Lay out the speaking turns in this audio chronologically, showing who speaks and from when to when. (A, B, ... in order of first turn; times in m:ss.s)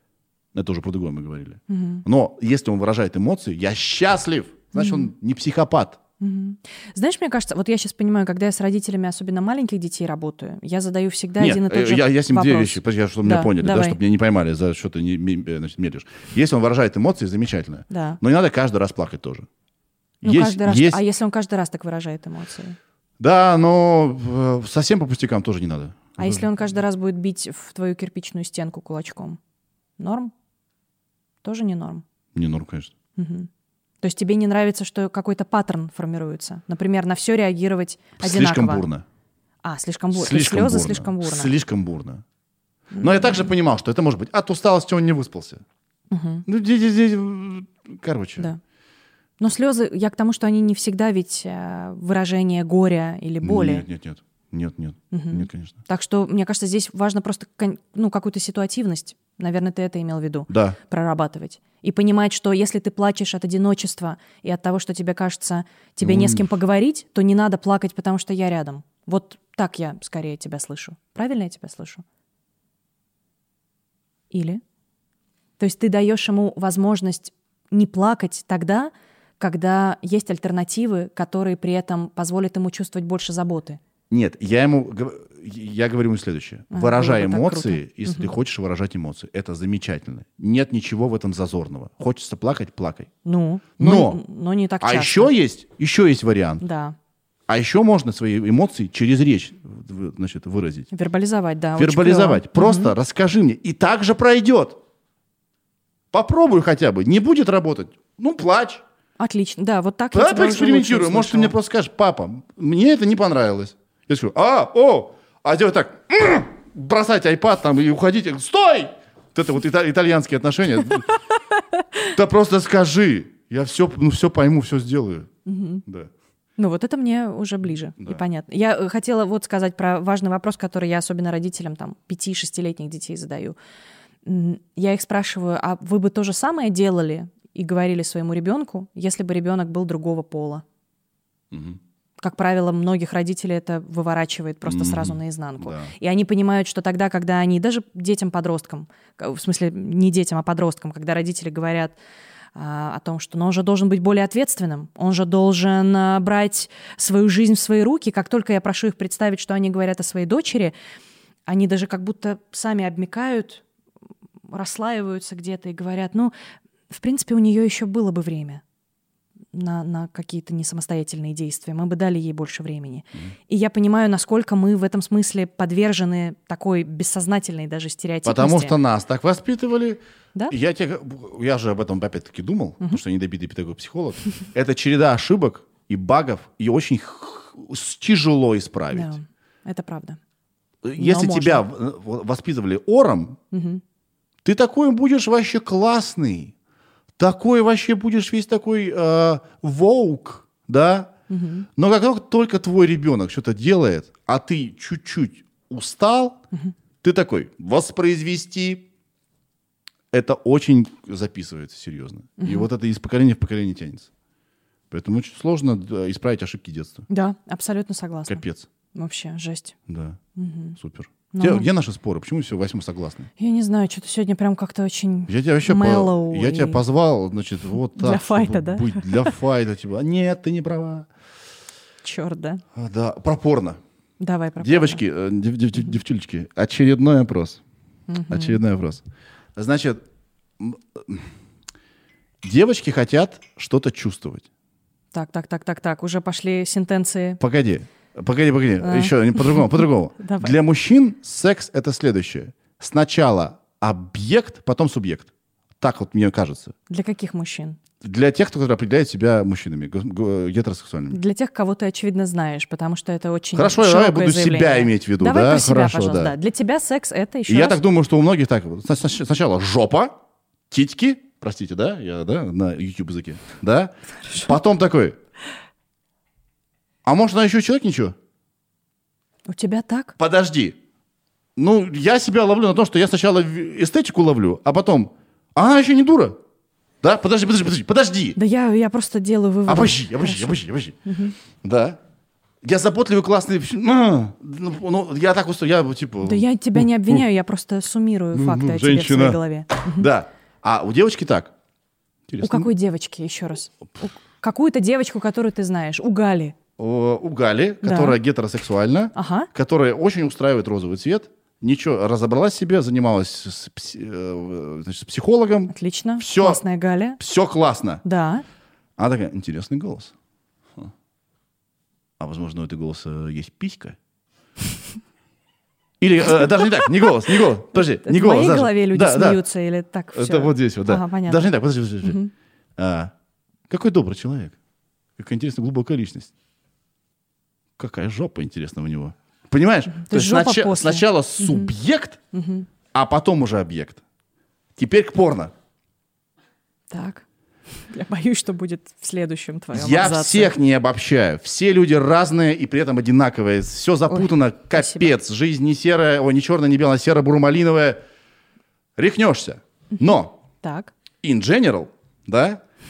0:00.5-0:06.0 A
0:01.7-0:02.0 B
0:04.7-0:05.1 B
0:06.2-0:14.0 B
0:11.4-0:19.5 A
0:17.9-0:18.2 B
0:20.2-0:21.0 A
0:20.2-0:22.8 B
0:23.2-0:26.4 A
0:26.2-0:29.4 B
0:30.0-0:30.3 B
0:31.4-0:32.0 B
0:32.4-0:32.9 A
0:33.2-0:33.5 B
0:34.0-0:38.8 B
0:38.2-0:39.0 A
0:39.6-0:41.5 B
0:40.1-0:42.2 A
0:42.9-0:43.5 B
0:43.0-0:45.6 A
0:46.1-0:46.4 B
0:46.5-0:48.5 A
0:49.4-0:53.9 B
0:53.4-0:55.8 A
0:55.1-1:12.0 B
1:00.5-1:00.8 A
1:06.0-1:06.4 A
1:14.3-1:14.6 B
1:15.6-1:23.8 B
1:24.1-1:33.1 A
1:26.7-1:28.3 B
1:33.2-1:35.3 B
1:33.8-1:34.2 A
1:34.8-1:36.6 A
1:36.6-1:37.0 B
1:37.5-1:40.9 A
1:40.9-1:42.9 B
1:41.8-1:44.8 A
1:46.1-1:48.8 A
1:49.2-1:51.6 B
1:50.1-2:01.1 A
2:01.3-2:02.1 B
2:02.1-2:05.3 A
2:05.4-2:05.8 B
2:05.8-2:06.1 A
2:06.6-2:13.6 B
2:14.2-2:20.6 B
2:21.5-2:21.8 A
2:22.2-2:32.0 B
2:24.6-2:25.9 A
2:32.6-2:40.7 B
2:41.5-2:43.6 B
2:44.5-2:46.3 B
2:46.9-2:48.6 B
2:49.5-2:58.7 B
2:58.2-3:09.1 A
3:08.9-3:10.2 B
3:10.8-3:13.4 A
3:11.0-3:11.6 B
3:13.5-3:13.8 B
3:14.4-3:16.5 A
3:17.2-3:21.1 A
3:21.3-3:21.6 B
3:21.8-3:26.4 A
3:27.0-3:28.9 A
3:30.1-3:34.1 A
3:32.4-3:32.7 B
3:34.9-3:37.1 A
3:37.1-3:38.4 B
3:38.3-3:38.7 A
3:38.9-3:39.8 B
3:39.9-3:40.2 A
3:40.4-3:40.8 B
3:40.8-3:43.3 A
3:41.3-3:41.7 B
3:43.4-3:46.8 B
3:45.3-3:51.1 A
3:48.0-3:49.4 B
3:52.0-3:52.6 B
3:52.7-3:53.8 A
3:54.2-3:55.0 B
3:54.6-3:57.6 A
3:58.1-3:58.6 B
3:58.3-3:59.0 A
3:59.6-4:00.0 A
4:00.6-4:01.3 A
4:02.4-4:04.4 A
4:05.1-4:07.4 B
4:07.4-4:16.7 A
4:08.8-4:10.6 B
4:16.9-4:17.8 B
4:18.0-4:21.2 A
4:21.1-4:27.8 B
4:23.6-4:26.4 A
4:27.5-4:30.2 A
4:30.7-4:35.2 A
4:34.2-4:34.5 B
4:37.0-4:38.2 A
4:39.5-4:40.2 B
4:40.2-4:40.8 A
4:41.6-4:46.4 A
4:47.0-4:48.4 A
4:48.4-4:51.4 B
4:49.7-4:51.0 A
4:51.6-4:52.0 A
4:52.6-4:57.2 A
4:56.2-5:00.1 B
4:58.3-5:01.5 A
5:02.3-5:02.7 A
5:02.4-5:06.6 B
5:06.8-5:16.6 A
5:07.8-5:08.2 B
5:09.2-5:09.5 B
5:15.7-5:17.2 B
5:17.2-5:18.0 A
5:18.0-5:18.4 B
5:19.0-5:20.1 A
5:22.2-5:24.0 A
5:26.0-5:29.4 A
5:27.7-5:32.3 B
5:30.1-5:32.2 A
5:32.8-5:33.1 A
5:33.7-5:34.6 A
5:35.2-5:36.3 A
5:37.8-5:42.2 A
5:39.9-5:41.7 B
5:42.3-5:42.7 B
5:42.9-5:44.0 A
5:44.8-5:45.5 A
5:46.9-5:47.2 B
5:47.8-5:50.6 B
5:49.7-5:58.0 A
5:54.1-5:55.1 B
5:59.0-6:00.3 A
6:00.6-6:00.9 B
6:01.2-6:02.6 A